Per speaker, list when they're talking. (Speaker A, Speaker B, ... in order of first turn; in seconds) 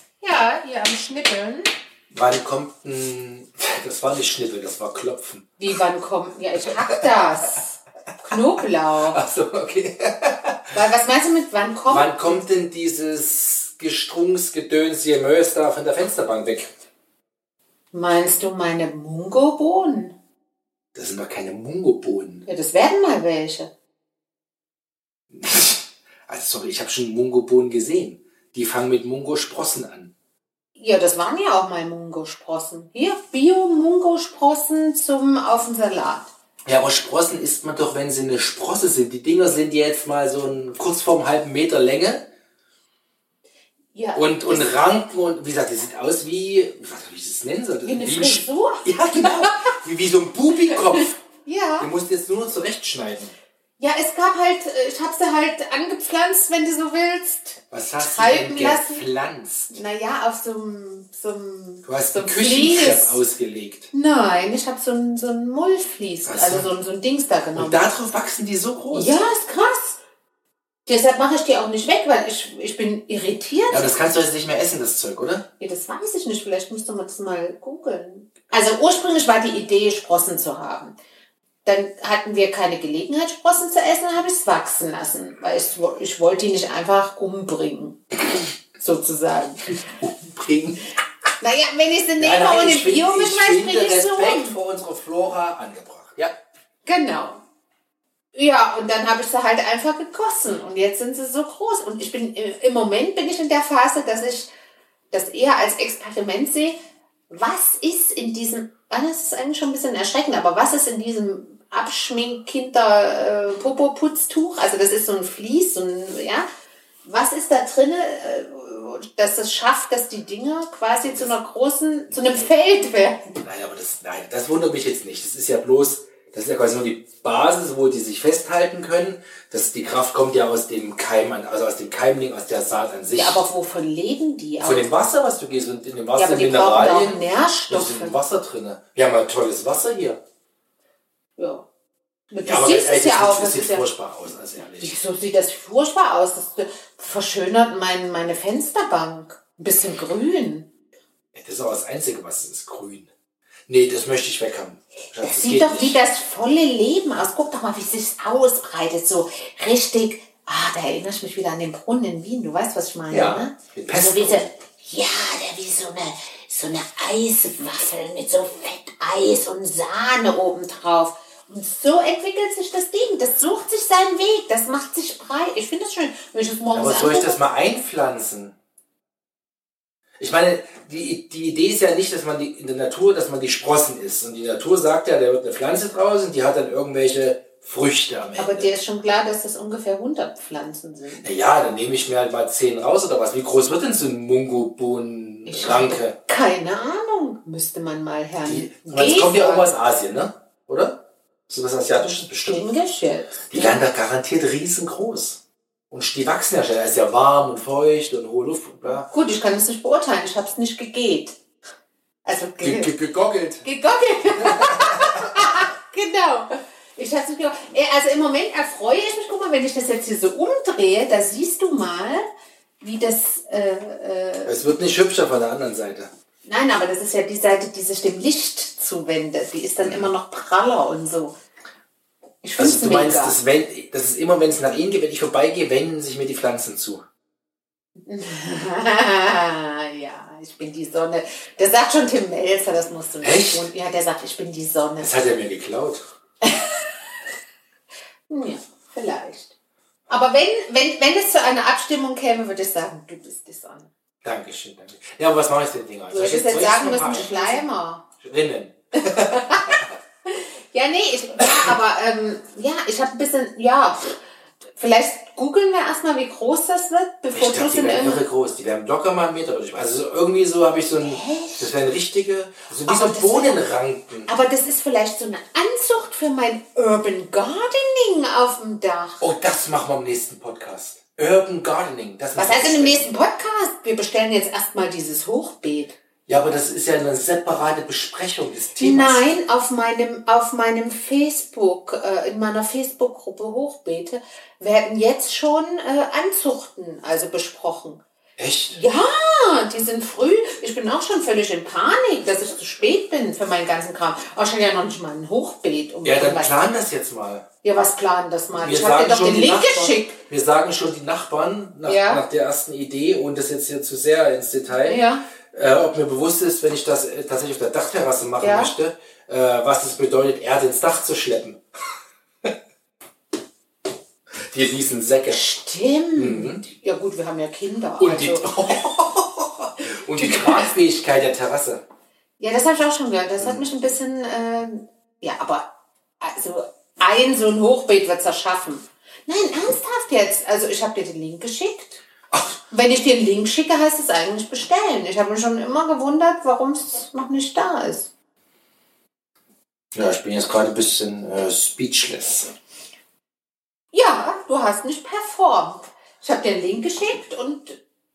Speaker A: 0.2-1.7, 5.6-9.2, 10.7-12.1, 17.9-20.1, 22.5-23.7, 30.8-36.3, 43.9-44.8, 47.8-49.7, 50.7-51.9, 53.8-59.0, 59.7-63.2, 63.9-67.9, 68.9-70.0, 70.9-73.9, 75.6-81.0, 81.7-88.0, 88.8-89.8, 91.4-94.6, 96.9-97.4, 98.3-104.5, 105.1-106.8, 107.3-116.5, 117.0-123.3, 133.2-134.9, 136.2-138.2, 141.4-141.7, 142.3-143.9, 144.8-150.7, 155.2-177.4, 188.4-191.3, 195.5-199.7, 202.4-203.8, 209.0-211.4, 212.2-212.9, 213.6-222.2, 222.8-224.6, 226.5-231.3, 232.4-233.4, 238.1-245.2, 246.4-246.8, 248.3-249.6, 250.1-253.9, 256.1-258.1, 259.0-264.2, 264.8-268.2, 271.0-271.7, 272.9-273.6, 274.3-279.2, 282.4-286.0, 288.8-298.0, 298.7-306.6, 307.6-310.2, 311.9-312.2, 314.8-315.3, 318.4-318.7, 325.3-328.8, 330.2-330.7, 332.4-342.0, 342.7-348.1, 353.9-357.8
Speaker B: 2.1-5.5, 6.7-7.0, 9.0-10.8, 11.9-16.7, 20.9-22.5, 25.3-30.1, 36.7-42.3, 44.1-51.2, 51.8-53.3, 57.7-59.8, 61.9-63.9, 66.2-66.7, 67.6-69.2, 73.7-75.5, 89.7-90.9, 92.2-96.3, 123.4-133.4, 134.6-140.2, 142.4-145.0, 151.3-153.1, 153.7-156.0, 163.1-164.5, 176.7-178.6, 180.2-188.7, 191.2-196.2, 198.5-202.7, 203.5-209.1, 212.6-213.7, 214.4-215.1, 224.5-226.1, 229.8-230.1, 232.6-237.0, 243.2-243.7, 245.0-246.0, 254.2-257.7, 258.2-259.4, 267.3-274.3, 279.2-283.0, 286.3-289.2, 298.4-298.8, 306.0-307.4, 308.6-321.6, 324.5-325.5, 326.1-326.6, 328.0-331.8, 333.4-333.6, 349.9-352.5